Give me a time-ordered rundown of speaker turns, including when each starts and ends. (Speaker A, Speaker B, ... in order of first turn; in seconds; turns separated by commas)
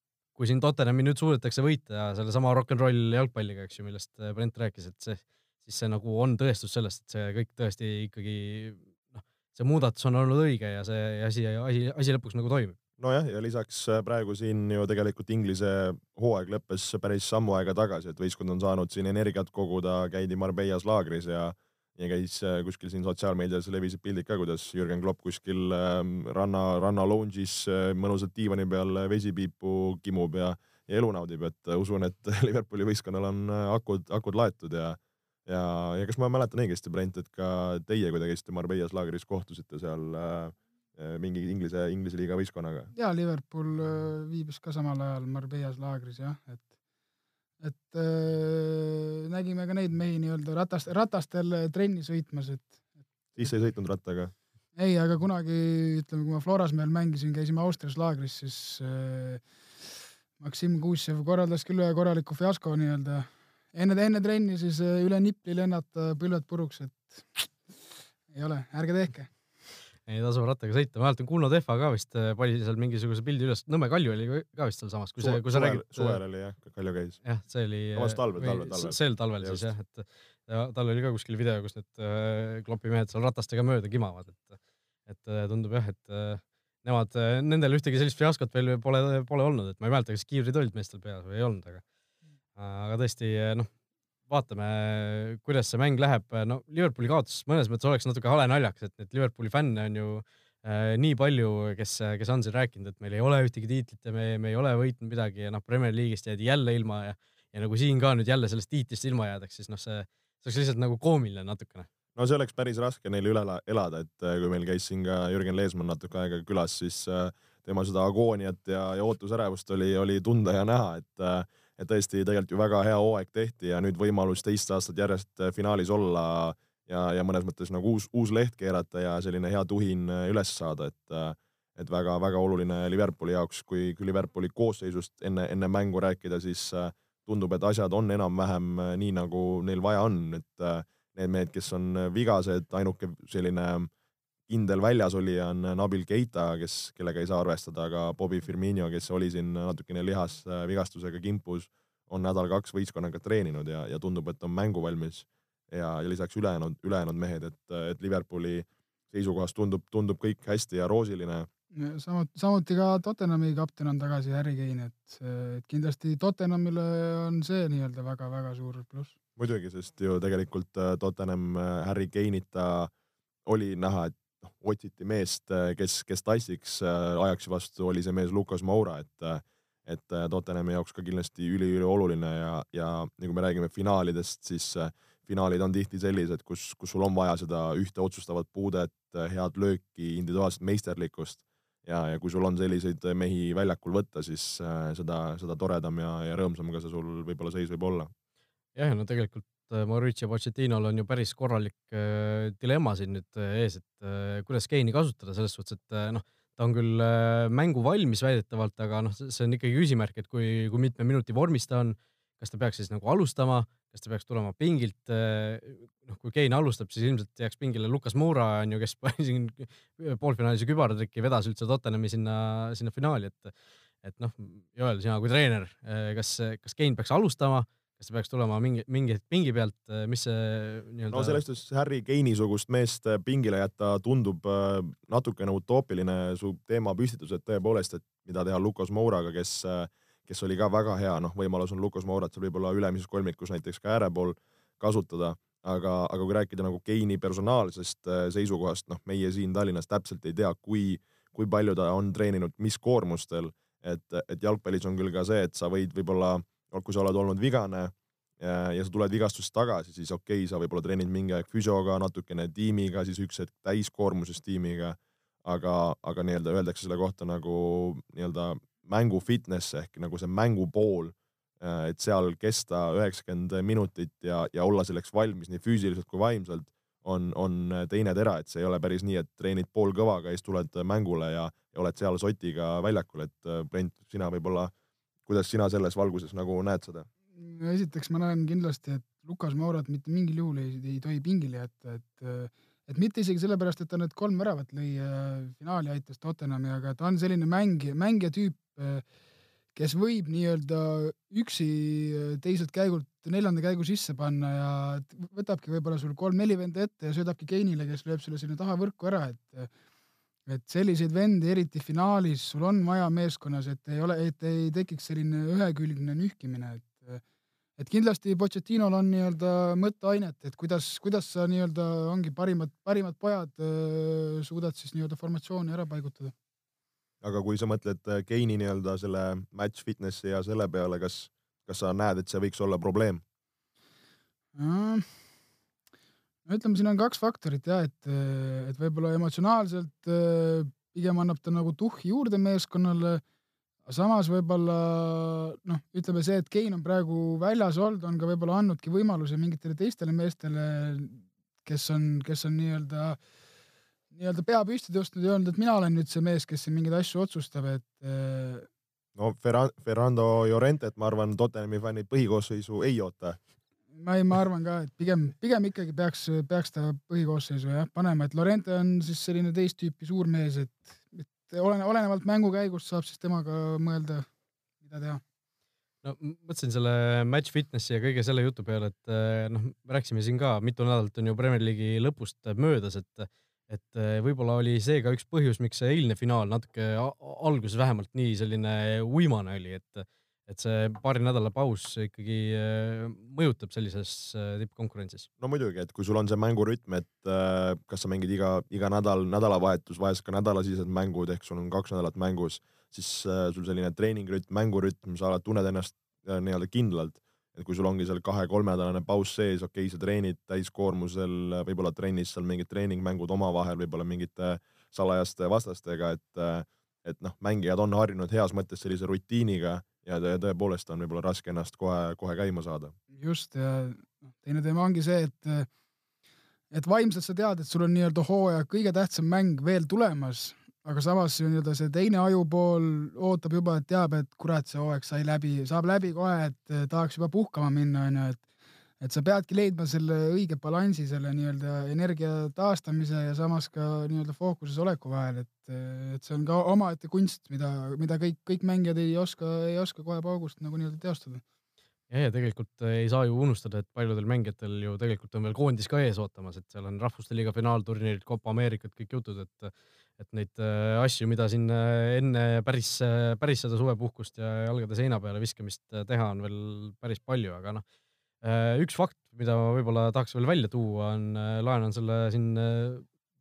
Speaker A: 0.3-12.8, Speaker B: 13.0-42.9, Speaker C: 42.9-46.6, Speaker C: 47.6-52.8, Speaker B: 53.4-54.3, Speaker C: 54.8-59.4, Speaker C: 60.4-67.5, Speaker C: 68.3-69.3, Speaker A: 70.1-76.2, Speaker B: 75.2-77.2, Speaker A: 77.2-91.8, Speaker B: 77.9-79.7, Speaker A: 92.5-93.7, Speaker A: 94.3-111.9, Speaker B: 112.2-143.9, Speaker B: 144.5-161.5, Speaker C: 161.7-169.1, Speaker B: 169.3-172.9, Speaker B: 173.4-198.1, Speaker A: 198.7-231.4, Speaker B: 231.1-284.7, Speaker B: 285.3-287.1, Speaker C: 287.4-299.0, Speaker C: 299.7-309.7, Speaker C: 310.5-317.2, Speaker C: 317.8-326.3, Speaker B: 327.2-333.2, Speaker C: 334.5-335.1, Speaker C: 336.4-343.2, Speaker C: 343.9-353.2, Speaker C: 354.1-358.7, Speaker B: 359.1-363.4, Speaker C: 363.9-374.3, Speaker C: 374.8-375.2, Speaker A: 376.0-395.3, Speaker B: 395.4-422.9, Speaker C: 423.1-425.7, Speaker C: 426.7-438.4, Speaker C: 439.0-451.4, Speaker A: 452.1-467.8, Speaker A: 468.4-473.1